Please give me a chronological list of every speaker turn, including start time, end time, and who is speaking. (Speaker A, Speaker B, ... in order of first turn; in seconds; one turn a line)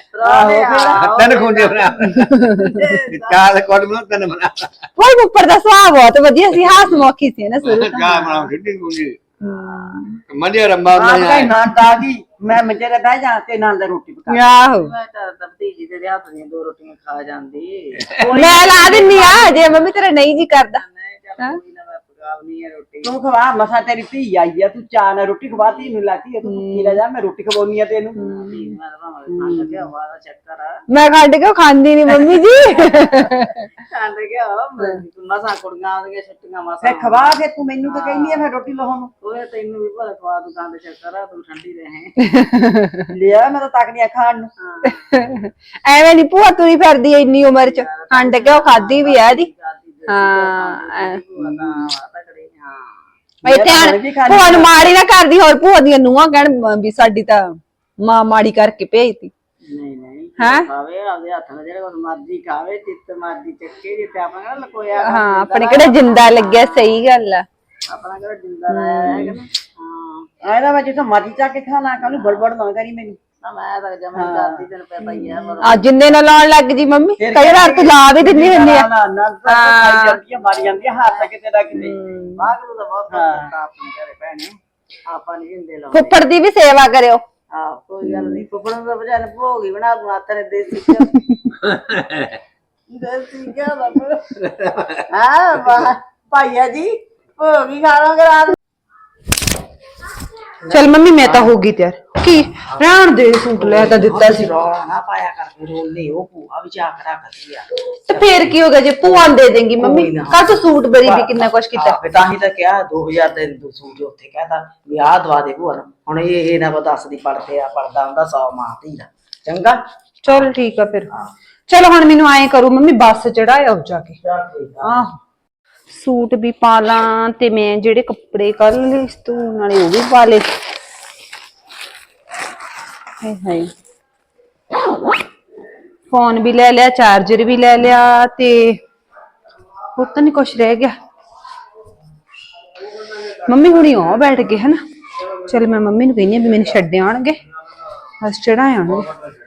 Speaker A: 0.1-3.4
Speaker B: 0.2-1.1
Speaker C: 1.0-4.8
Speaker D: 5.0-8.5
Speaker C: 7.6-9.2
Speaker D: 9.4-10.2
Speaker A: 9.5-10.1
Speaker C: 10.3-11.6
Speaker B: 10.9-14.4
Speaker D: 14.3-14.9
Speaker A: 14.6-23.1
Speaker B: 18.1-19.7
Speaker D: 18.2-20.8
Speaker B: 23.0-28.2
Speaker D: 26.4-27.0
Speaker D: 28.2-28.7
Speaker A: 28.3-30.8
Speaker B: 29.4-29.7
Speaker D: 30.9-33.6
Speaker A: 32.7-38.5
Speaker B: 36.8-39.1
Speaker A: 39.2-42.1
Speaker D: 42.2-43.1
Speaker B: 43.1-44.5
Speaker A: 44.6-45.2
Speaker D: 44.9-49.5
Speaker A: 47.5-52.9
Speaker D: 50.1-51.2
Speaker D: 53.4-59.3
Speaker B: 53.4-54.8
Speaker A: 59.6-66.9
Speaker D: 60.4-60.7
Speaker D: 65.0-67.5
Speaker A: 67.9-70.3
Speaker D: 68.7-69.4
Speaker B: 70.4-73.2
Speaker A: 73.4-75.9
Speaker B: 74.1-74.6
Speaker D: 75.0-78.9
Speaker B: 77.2-81.9
Speaker D: 79.5-80.2
Speaker A: 80.8-86.2
Speaker D: 81.8-82.5
Speaker B: 83.1-83.5
Speaker D: 85.9-87.2
Speaker A: 87.5-91.1
Speaker D: 88.0-88.4
Speaker D: 91.1-91.5
Speaker C: 91.9-92.2
Speaker A: 92.9-98.5
Speaker D: 100.7-104.5
Speaker A: 100.7-101.5
Speaker A: 103.6-108.4
Speaker D: 108.1-112.0
Speaker A: 109.0-119.8
Speaker D: 120.2-121.1
Speaker D: 121.7-124.2
Speaker A: 124.2-125.0
Speaker D: 124.8-125.1
Speaker D: 125.9-130.5
Speaker D: 133.2-133.7
Speaker D: 136.1-138.8
Speaker D: 139.9-140.9
Speaker D: 143.4-144.8
Speaker D: 145.4-147.4
Speaker D: 148.2-149.1